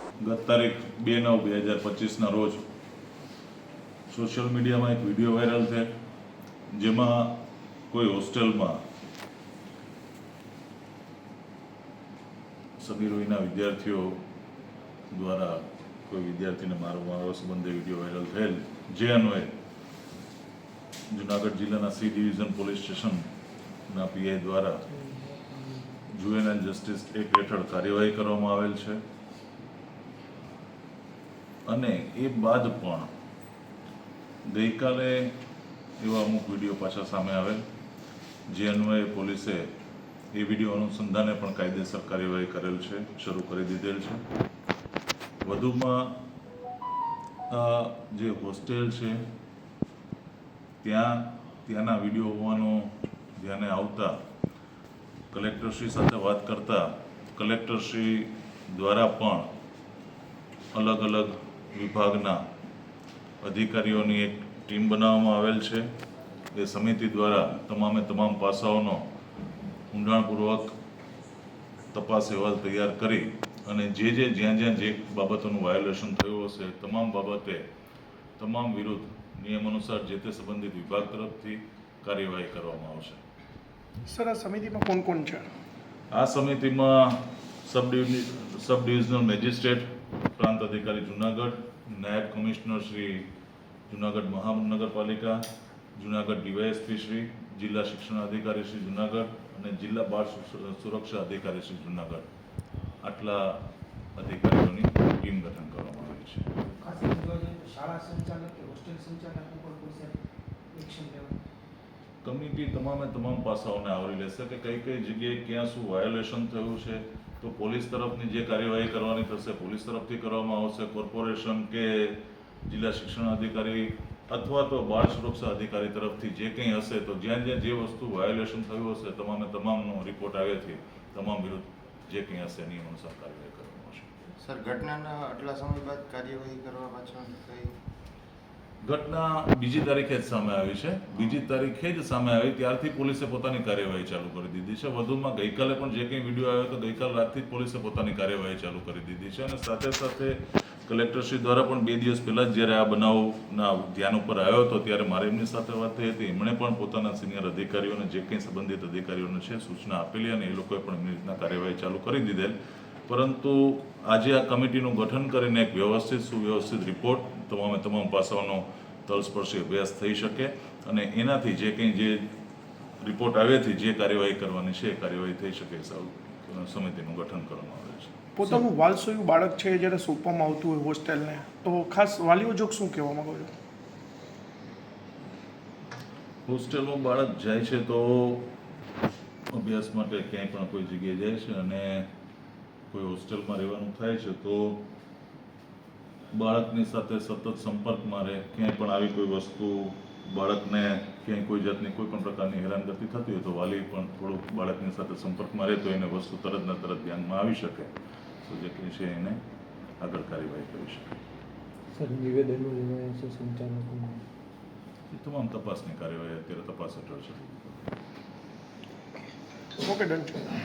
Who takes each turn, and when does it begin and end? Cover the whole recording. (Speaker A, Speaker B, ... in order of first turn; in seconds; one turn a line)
Speaker A: 0.2-2.6
Speaker A: 4.1-5.9
Speaker A: 6.7-8.8
Speaker A: 12.8-14.2
Speaker A: 15.1-19.5
Speaker A: 21.1-23.3
Speaker A: 23.9-24.8
Speaker B: 24.9-25.9
Speaker A: 26.1-29.0
Speaker A: 31.7-33.1
Speaker A: 34.5-35.3
Speaker A: 36.0-37.6
Speaker A: 38.5-39.7
Speaker A: 40.3-44.2
Speaker A: 45.4-46.2
Speaker A: 47.5-49.2
Speaker A: 50.8-54.2
Speaker A: 55.3-59.5
Speaker A: 60.7-62.4
Speaker A: 63.4-65.9
Speaker A: 66.5-69.0
Speaker A: 69.9-70.7
Speaker A: 71.9-77.7
Speaker A: 78.4-83.2
Speaker C: 84.1-85.5
Speaker A: 86.1-93.3
Speaker A: 93.9-102.3
Speaker A: 103.0-103.6
Speaker A: 104.2-106.5
Speaker D: 106.8-110.2
Speaker D: 110.7-111.4
Speaker A: 112.2-134.1
Speaker E: 134.4-137.7
Speaker A: 138.8-162.6
Speaker A: 163.1-172.3
Speaker A: 173.0-178.2
Speaker C: 178.4-183.5
Speaker A: 186.5-188.5
Speaker A: 189.5-192.1
Speaker A: 192.9-194.8
Speaker A: 196.3-207.9
Speaker A: 208.4-209.4
Speaker A: 210.0-211.2
Speaker B: 211.9-214.3
Speaker A: 215.1-217.9
Speaker C: 219.8-220.4